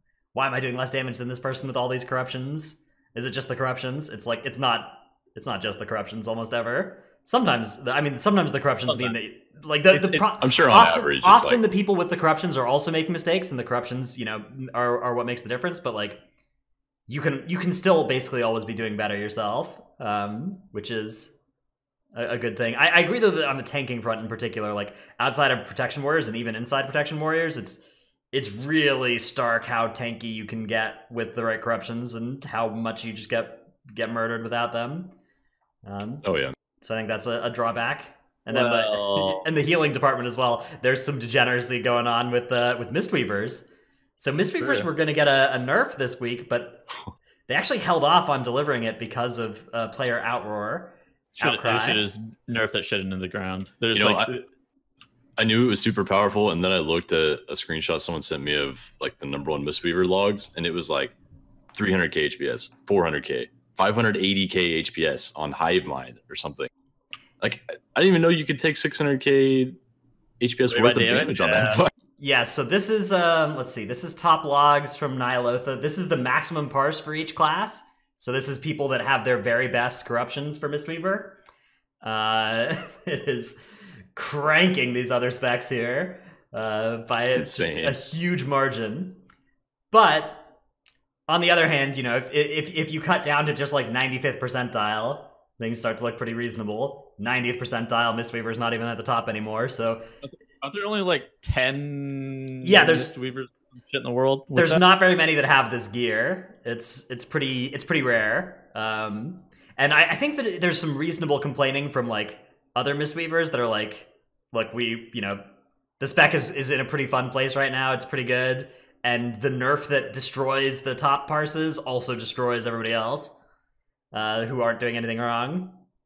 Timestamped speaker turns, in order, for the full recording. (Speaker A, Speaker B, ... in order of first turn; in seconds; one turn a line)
Speaker A: 0.3-16.2
Speaker B: 8.9-9.1
Speaker B: 9.9-10.2
Speaker C: 10.4-11.6
Speaker A: 17.1-21.4
Speaker A: 22.1-35.1
Speaker A: 35.8-36.2
Speaker C: 36.2-36.5
Speaker A: 36.8-46.9
Speaker B: 38.5-39.4
Speaker B: 44.6-44.9
Speaker A: 47.5-52.0
Speaker B: 51.4-54.4
Speaker C: 53.9-54.3
Speaker C: 55.4-61.1
Speaker C: 61.7-66.7
Speaker C: 67.4-69.8
Speaker C: 70.4-71.9
Speaker B: 70.7-71.8
Speaker A: 72.2-81.4
Speaker A: 82.0-83.6
Speaker A: 84.1-89.2
Speaker C: 87.3-88.0
Speaker A: 89.9-90.5
Speaker A: 91.3-100.1
Speaker B: 100.2-104.8
Speaker A: 102.6-103.1
Speaker A: 104.5-115.4
Speaker A: 116.0-123.3
Speaker A: 124.1-125.8